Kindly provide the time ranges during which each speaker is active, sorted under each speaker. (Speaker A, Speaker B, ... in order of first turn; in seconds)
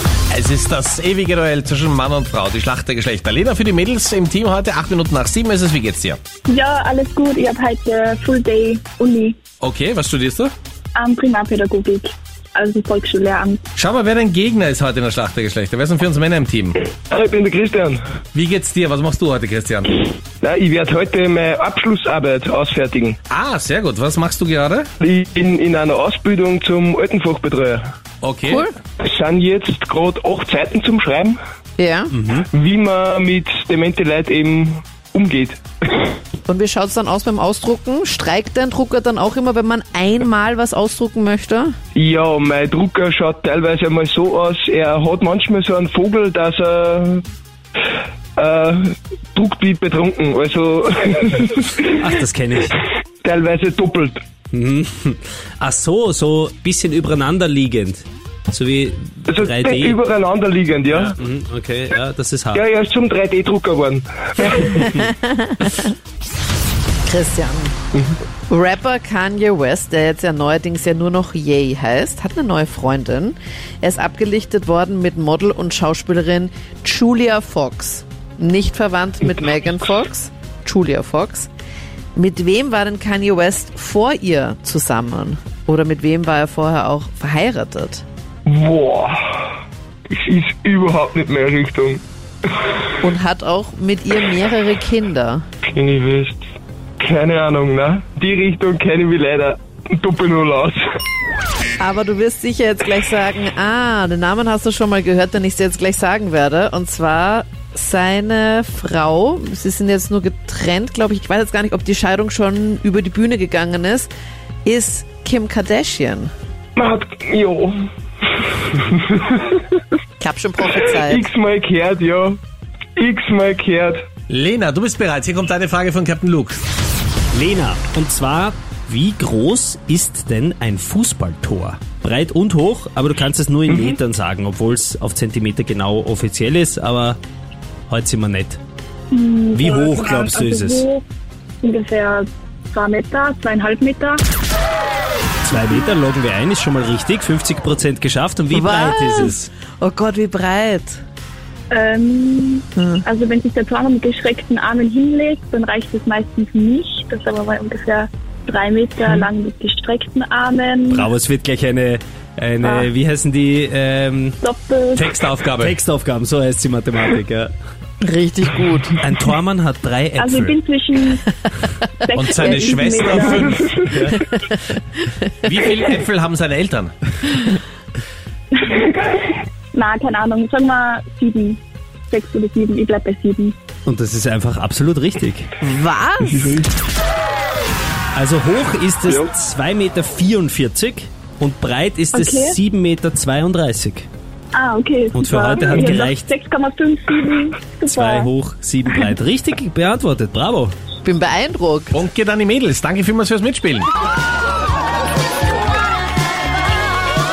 Speaker A: 0.3-6.2, 9.6-10.5, 13.8-16.8, 18.3-20.1, 23.3-24.9, 28.2-28.7, 124.3-126.6, 164.9-165.8, 172.2-173.9, 175.4-176.9, 201.9-203.9
Speaker B: 6.5-9.4, 10.9-13.6, 139.1-141.0, 141.6-144.2, 151.7-161.1, 162.6-162.9, 164.4-165.1, 170.2-171.3, 172.0-173.7, 178.6-178.9, 179.7-183.6, 192.1-192.6, 194.5-198.3
Speaker C: 17.1-18.0, 20.4-23.2, 25.0-27.9, 29.0-31.4, 32.4-36.2, 41.9-47.2, 48.4-51.9, 53.2-54.2, 59.3-61.1, 62.5-64.9, 88.5-89.5, 90.1-92.0, 95.6-96.5, 97.0-100.8, 116.8-119.8, 121.0-122.4, 123.0-124.0, 133.7-134.0
Speaker D: 28.4-28.7, 31.8-32.2, 36.5-41.7, 64.5-65.9, 67.1-67.7, 68.5-81.5, 82.1-88.0, 93.0-95.4, 101.8-114.1, 114.6-116.3, 120.2-121.2, 148.5-151.0, 152.8-153.0, 168.0-169.0, 185.6-186.6, 201.0-202.0
Speaker E: 32.1-32.5, 51.8-52.8, 54.5-60.0, 61.1-62.6, 127.3-137.2, 137.9-138.6, 139.5-140.8, 145.4-149.5, 160.9-164.4, 165.2-167.5, 169.0-170.6, 173.8-174.2, 183.8-185.5, 188.1-194.1, 195.1-196.3, 197.9-200.7